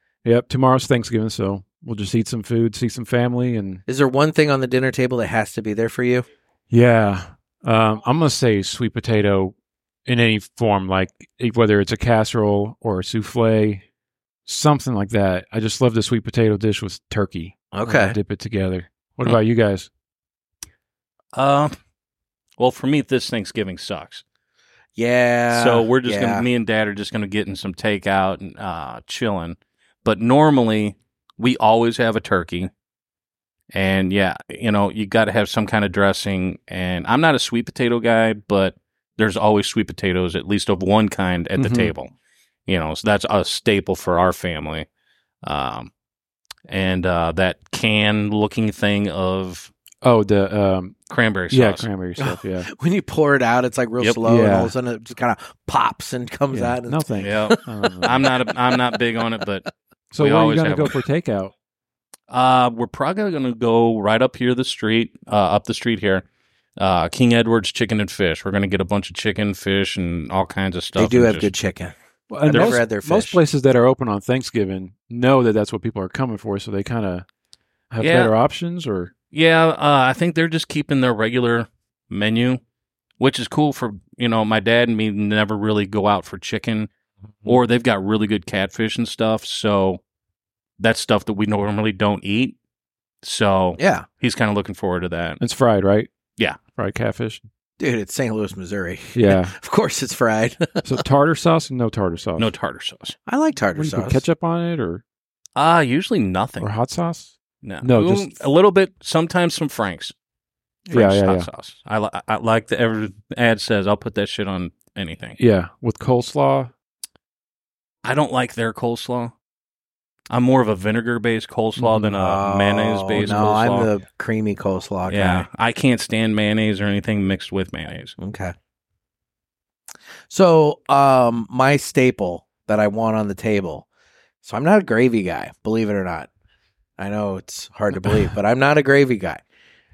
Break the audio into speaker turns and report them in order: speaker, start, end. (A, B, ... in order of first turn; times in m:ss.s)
0:00.2-0:03.8 A
0:03.9-0:06.3 B
0:06.7-0:09.5 A
0:10.0-0:13.8 A
0:14.4-0:19.9 A
0:17.7-0:18.2 B
0:21.3-0:21.7 C
0:22.6-0:24.2 C
0:25.0-0:26.4 B
0:25.5-0:32.7 C
0:33.7-0:42.1 C
0:41.6-0:41.9 A
0:42.7-0:44.9 C
0:45.4-0:45.9 C
0:46.7-0:49.7 C
0:50.0-0:51.0 A
0:51.1-0:51.9 C
0:51.5-0:52.7 A
0:52.2-0:59.4 B
0:54.2-0:54.7 A
0:56.5-0:58.2 A
0:57.2-1:01.0 C
1:00.1-1:01.5 A
1:02.3-1:06.2 C
1:06.8-1:11.5 C
1:11.0-1:11.9 B
1:12.3-1:17.2 A
1:12.4-1:13.4 B
1:17.9-1:19.1 A
1:18.0-1:18.3 C
1:19.3-1:22.6 C
1:23.2-1:26.9 C
1:27.4-1:30.0 C
1:30.8-1:32.6 C
1:33.2-1:35.4 C
1:33.8-1:34.0 B
1:35.4-1:36.1 A
1:36.8-1:37.4 A
1:37.8-1:41.0 B
1:39.1-1:39.6 A
1:40.8-1:42.5 A
1:42.4-1:43.1 C
1:43.3-1:44.2 B
1:43.7-1:45.0 A
1:45.6-1:46.7 C
1:46.6-1:48.4 A
1:47.6-1:50.1 C
1:50.9-1:51.5 A
1:50.9-1:55.4 C
1:55.4-1:56.7 A
1:58.0-1:59.3 C
2:00.3-2:03.9 C
2:01.8-2:02.1 A
2:02.2-2:05.5 B
2:05.1-2:08.1 C
2:08.2-2:08.5 B
2:10.3-2:13.8 B
2:14.4-2:16.3 B
2:17.0-2:19.4 B